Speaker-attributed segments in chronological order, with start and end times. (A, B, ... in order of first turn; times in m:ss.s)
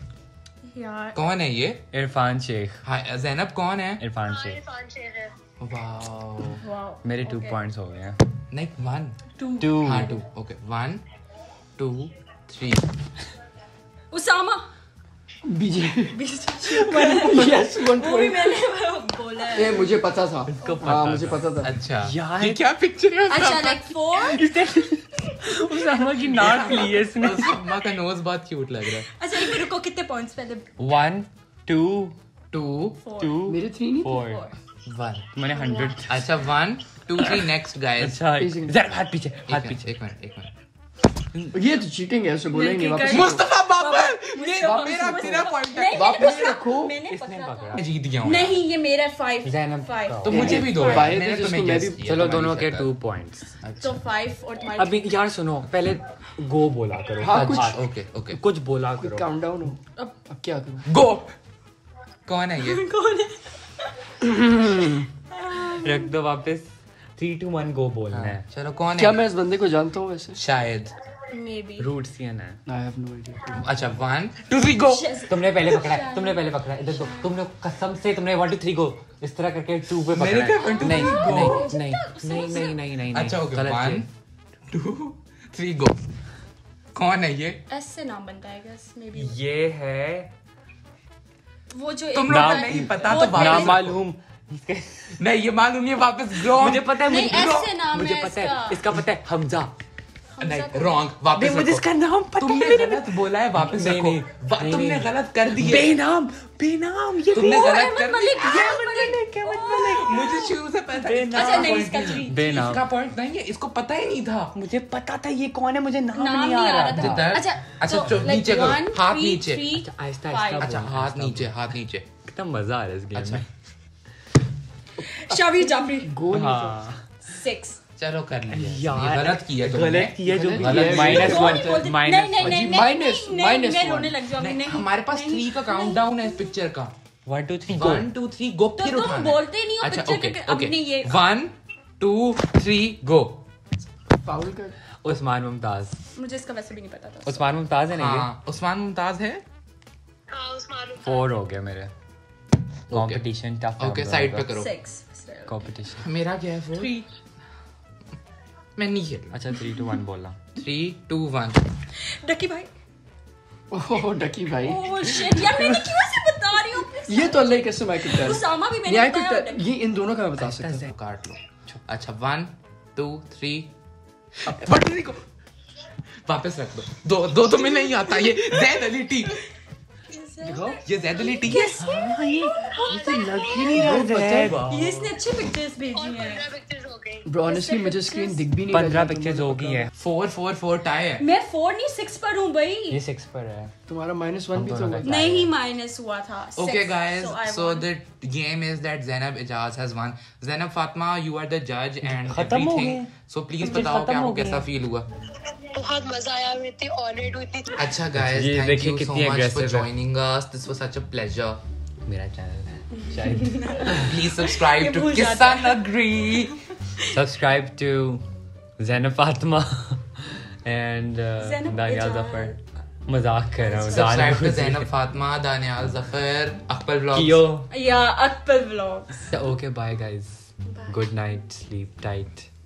0:00.6-0:01.2 A
0:01.1-0:01.8 B
0:01.9-0:02.8 C
0:02.8-0:04.0 B
0:04.0-0:04.6 C
0:04.2-0:05.5 D
0:05.6-0:06.6 B
0:06.6-0:07.6 A
0:07.0-0:08.2 C
0:08.5-0:09.2 B
0:09.4-0:09.7 A
0:09.6-0:10.1 C
0:09.8-0:11.0 B
0:11.8-0:12.8 B
0:14.1-0:14.7 A
0:15.4-0:16.2 E
0:16.1-0:19.9 A
0:16.8-0:18.6 E
0:19.5-0:21.7 E
0:20.6-0:22.6 C
0:21.6-0:24.1 B
0:23.3-0:24.4 A
0:24.3-0:27.5 C
0:26.3-0:29.1 B
0:29.0-0:30.6 A
0:30.8-0:32.1 C
0:32.5-0:33.0 B
0:33.0-0:33.4 A
0:33.2-0:34.4 C
0:33.5-0:34.2 E
0:34.1-0:34.5 A
0:34.8-0:35.4 B
0:35.3-0:36.3 C
0:35.5-0:36.0 A
0:36.0-0:38.2 B
0:37.2-0:39.9 C
0:38.4-0:38.8 E
0:39.4-0:40.5 B
0:41.5-0:43.5 E
0:42.5-0:51.2 A
0:43.1-0:46.5 B
0:44.9-0:47.0 E
0:47.1-0:47.8 C
0:47.7-0:48.6 B
0:49.4-0:50.6 C
0:50.2-0:52.9 B
0:50.3-0:52.0 E
0:52.0-0:53.5 C
0:53.6-0:54.0 B
0:53.8-0:55.0 A
0:54.8-0:59.3 C
0:57.2-0:57.7 E
0:57.3-0:58.4 B
0:59.0-1:00.9 E
1:00.9-1:01.3 B
1:02.3-1:02.8 B
1:02.6-1:04.1 A
1:04.2-1:05.0 E
1:05.3-1:06.1 A
1:05.7-1:08.4 C
1:08.1-1:09.2 B
1:09.0-1:10.4 E
1:10.4-1:10.9 B
1:11.3-1:11.9 A
1:11.8-1:12.6 C
1:12.6-1:13.9 E
1:13.6-1:15.2 B
1:14.8-1:16.4 A
1:15.3-1:24.0 C
1:20.1-1:21.7 B
1:20.6-1:22.8 A
1:22.6-1:24.1 B
1:24.7-1:26.0 B
1:26.9-1:27.6 B
1:27.7-1:29.4 A
1:29.1-1:30.3 C
1:31.7-1:33.8 A
1:32.1-1:34.0 B
1:32.3-1:35.2 C
1:35.2-1:37.7 B
1:36.4-1:39.7 C
1:37.0-1:38.9 A
1:40.4-1:41.0 A
1:40.4-1:41.8 B
1:41.3-1:47.8 C
1:42.4-1:45.9 B
1:47.3-1:48.6 B
1:47.4-1:50.5 A
1:48.4-1:50.2 C
1:49.8-1:54.5 B
1:50.9-1:52.8 C
1:51.3-1:52.4 A
1:54.5-1:57.2 C
1:56.1-2:00.7 A
1:56.9-1:59.7 B
1:59.8-2:01.5 C
2:00.6-2:02.0 B
2:02.2-2:03.4 C
2:03.1-2:03.4 B
2:05.0-2:06.8 E
2:05.0-2:06.1 A
2:06.3-2:07.1 C
2:07.2-2:07.8 A
2:08.0-2:11.7 B
2:08.5-2:12.8 C
2:10.2-2:14.2 E
2:11.0-2:16.5 A
2:14.4-2:16.9 B
2:17.2-2:18.1 C
2:17.7-2:23.4 B
2:18.8-2:21.2 A
2:24.2-2:24.7 E
2:25.0-2:26.0 C
2:26.1-2:27.5 A
2:27.2-2:28.3 C
2:27.9-2:29.4 B
2:30.3-2:31.3 D
2:31.0-2:31.9 C
2:32.9-2:33.2 B
2:32.9-2:34.6 C
2:33.8-2:34.7 B
2:34.5-2:35.5 A
2:35.5-2:36.0 C
2:36.0-2:37.1 B
2:38.8-2:39.4 B
2:39.3-2:40.4 C
2:40.5-2:41.6 B
2:42.0-2:42.7 A
2:43.7-2:45.9 E
2:44.6-2:49.6 A
2:47.1-2:50.9 E
2:50.4-2:50.9 C
2:50.8-2:53.7 B
2:54.4-2:55.2 B
2:56.2-2:59.4 B
2:57.5-2:59.3 A
3:00.1-3:02.8 A
3:00.4-3:00.8 E
3:00.8-3:01.9 B
3:01.8-3:04.6 C
3:02.9-3:03.9 D
3:03.5-3:05.1 B
3:03.7-3:04.7 E
3:04.7-3:06.5 A
3:06.0-3:07.3 D
3:07.2-3:09.9 E
3:07.4-3:08.5 A
3:08.7-3:09.9 C
3:09.9-3:11.2 B
3:11.2-3:13.0 A
3:12.9-3:13.7 C
3:13.9-3:15.1 E
3:14.5-3:15.5 C
3:15.0-3:17.9 A
3:16.6-3:25.1 B
3:22.0-3:24.7 C
3:25.5-3:27.7 D
3:27.8-3:31.6 B
3:28.1-3:29.9 C
3:32.0-3:34.1 C
3:33.0-3:36.3 A
3:33.9-3:36.5 B
3:37.1-3:38.2 C
3:38.8-3:44.9 C
3:41.4-3:42.6 A
3:43.6-3:44.2 A
3:43.9-3:47.5 B
3:47.1-3:47.7 C
3:47.7-3:49.3 A
3:49.3-3:52.5 C
3:50.6-3:51.1 A